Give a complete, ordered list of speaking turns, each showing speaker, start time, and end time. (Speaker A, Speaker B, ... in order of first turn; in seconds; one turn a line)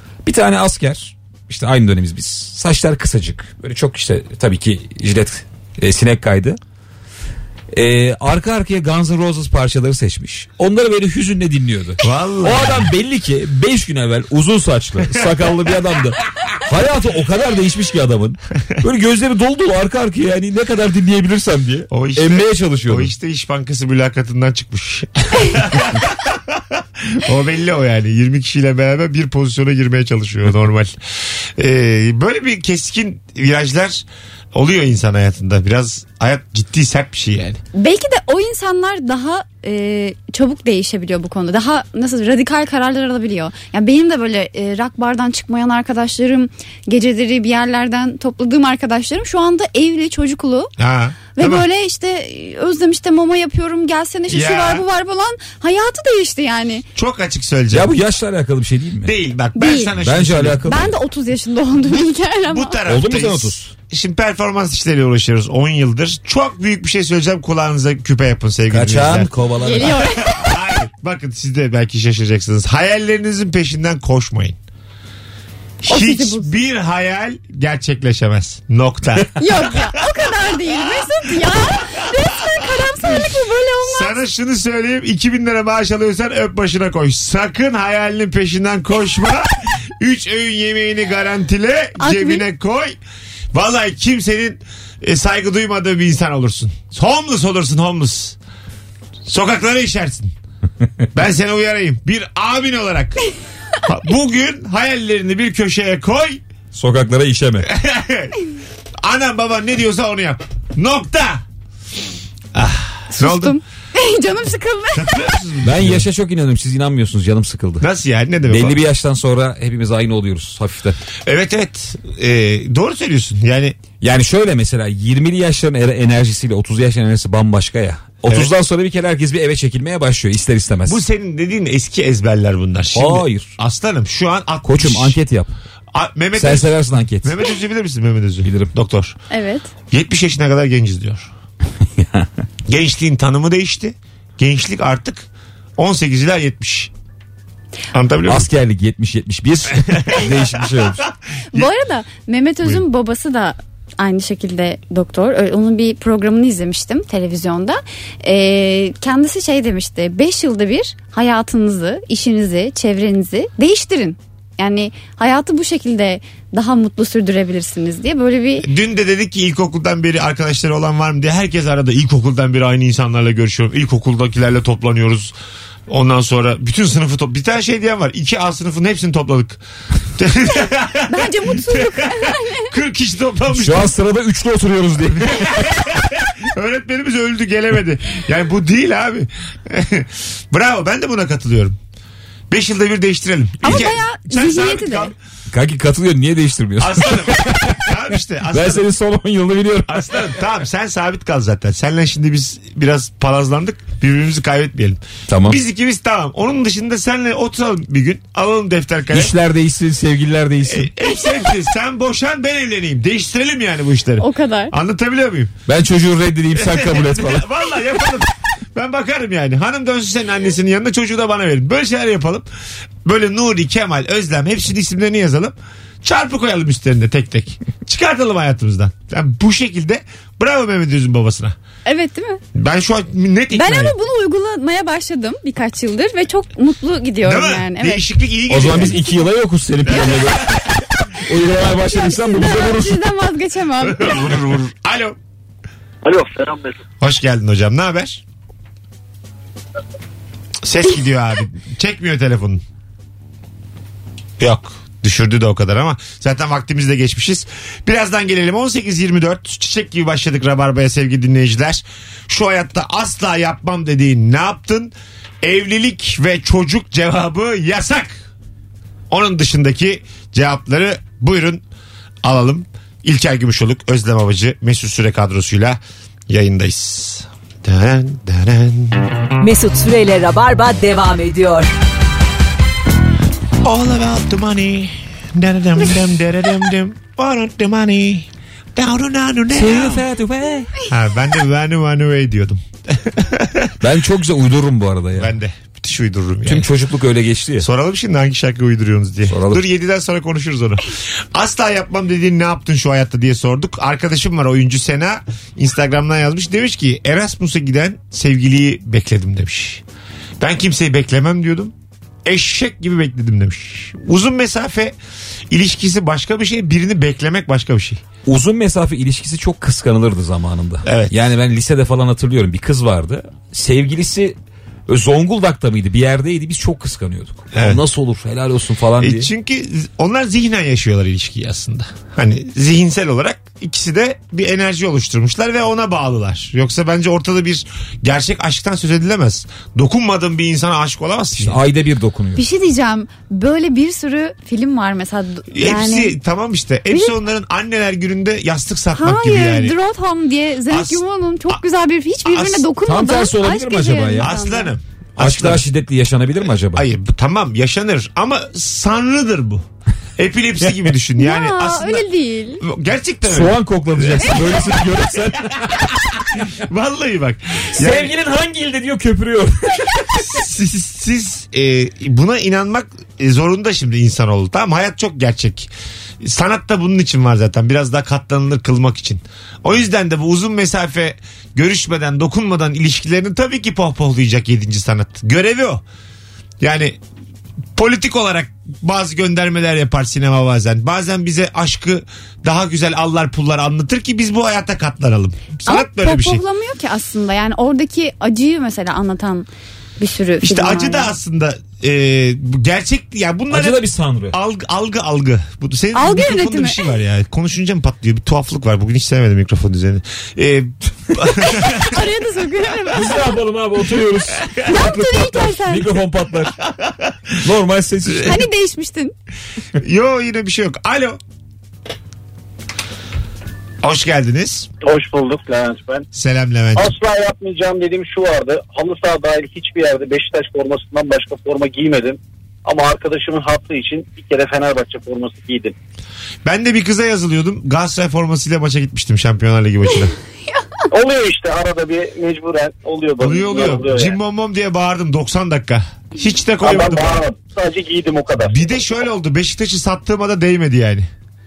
Speaker A: 0.2-6.6
Speaker A: 7.7-23.1
Speaker B: 12.0-12.9
Speaker B: 21.9-31.0
Speaker B: 31.6-37.6
Speaker C: 37.8-50.7
Speaker B: 50.8-51.6
Speaker C: 51.4-56.9
Speaker B: 54.3-54.8
Speaker B: 57.0-58.0
Speaker A: 57.7-59.1
Speaker B: 59.0-60.8
Speaker C: 59.6-59.9
Speaker A: 60.0-60.9
Speaker C: 60.7-62.8
Speaker B: 62.5-74.6
Speaker A: 62.9-63.7
Speaker A: 68.7-70.2
Speaker C: 69.6-70.5
Speaker B: 75.8-82.1
Speaker C: 75.9-76.5
Speaker C: 79.4-84.2
Speaker B: 82.8-83.1
Speaker B: 83.9-93.0
Speaker C: 92.0-92.5
Speaker B: 93.5-98.4
Speaker B: 99.3-100.3
Speaker B: 101.1-103.2
Speaker B: 103.8-106.4
Speaker A: 106.7-107.7
Speaker B: 107.6-108.4
Speaker B: 109.0-111.4
Speaker B: 112.5-113.6
Speaker C: 113.1-115.3
Speaker B: 114.9-116.1
Speaker A: 115.6-117.8
Speaker B: 117.8-118.8
Speaker A: 118.5-121.0
Speaker B: 121.2-123.8
Speaker A: 124.0-131.0
Speaker B: 128.3-128.5
Speaker B: 130.8-135.2
Speaker A: 132.9-133.5
Speaker A: 134.6-135.5
Speaker B: 135.9-139.2
Speaker A: 136.4-137.3
Speaker A: 138.4-138.7
Speaker C: 139.3-139.7
Speaker B: 139.9-141.3
Speaker A: 142.0-142.3
Speaker B: 142.7-146.9
Speaker B: 147.9-148.5
Speaker A: 148.3-151.1
Speaker B: 149.9-151.0
Speaker C: 151.5-168.7
Speaker B: 168.6-175.3
Speaker B: 175.9-179.6
Speaker B: 180.2-183.9
Speaker C: 181.1-182.7
Speaker A: 183.5-185.7
Speaker B: 185.2-191.8
Speaker B: 192.5-195.2
Speaker C: 193.6-195.1
Speaker A: 195.5-197.9
Speaker B: 196.8-198.9
Speaker A: 198.5-200.1
Speaker B: 199.9-209.3
Speaker A: 205.3-205.6
Speaker A: 209.1-210.9
Speaker B: 210.6-215.6
Speaker C: 214.2-214.7
Speaker A: 215.7-217.4
Speaker B: 216.5-222.5
Speaker B: 223.1-231.6
Speaker C: 231.9-232.4
Speaker B: 232.5-233.9
Speaker C: 233.5-238.0
Speaker B: 237.2-239.2
Speaker A: 238.5-240.6
Speaker B: 239.9-240.6
Speaker A: 241.2-243.0
Speaker C: 241.9-244.2
Speaker B: 243.8-245.2
Speaker D: 246.1-246.7
Speaker B: 247.0-248.2
Speaker B: 250.6-252.6
Speaker B: 254.4-268.2
Speaker B: 269.1-271.6
Speaker B: 272.2-279.1
Speaker E: 279.4-281.7
Speaker B: 283.6-290.1
Speaker A: 289.5-290.7
Speaker B: 290.9-293.8
Speaker A: 293.8-295.3
Speaker B: 295.2-296.7
Speaker A: 296.5-297.7
Speaker B: 297.6-309.8
Speaker A: 299.3-299.6
Speaker B: 310.4-311.7
Speaker B: 312.2-315.0
Speaker B: 315.5-318.0
Speaker A: 318.3-324.4
Speaker B: 320.9-321.1
Speaker A: 324.9-329.3
Speaker B: 327.5-327.8
Speaker B: 329.0-341.6
Speaker A: 341.4-342.4
Speaker C: 342.4-346.2
Speaker B: 345.5-349.8
Speaker C: 346.9-347.2
Speaker C: 348.9-354.7
Speaker B: 350.7-351.6
Speaker B: 352.2-352.7
Speaker A: 352.8-354.3
Speaker B: 354.2-355.7
Speaker A: 355.2-356.9
Speaker B: 356.7-359.6
Speaker B: 360.2-362.1
Speaker C: 361.2-362.6
Speaker B: 362.6-365.8
Speaker A: 363.2-365.9
Speaker B: 366.6-368.1
Speaker A: 367.8-370.4
Speaker B: 370.2-385.8
Speaker B: 386.6-387.0
Speaker B: 387.8-396.4
Speaker C: 395.7-399.5
Speaker C: 400.0-401.1
Speaker B: 400.4-412.0
Speaker A: 403.5-404.4
Speaker C: 405.9-406.8
Speaker C: 411.4-413.3
Speaker A: 412.9-416.6
Speaker C: 414.6-415.9
Speaker B: 416.7-417.3
Speaker A: 417.4-418.4
Speaker B: 418.0-418.4
Speaker C: 418.2-419.1
Speaker B: 419.8-421.2
Speaker B: 423.8-424.7
Speaker D: 424.8-426.1
Speaker B: 426.1-426.9
Speaker D: 426.8-435.8
Speaker B: 436.4-440.1
Speaker D: 440.9-444.2
Speaker B: 443.2-447.2
Speaker D: 446.6-448.8
Speaker B: 448.4-451.1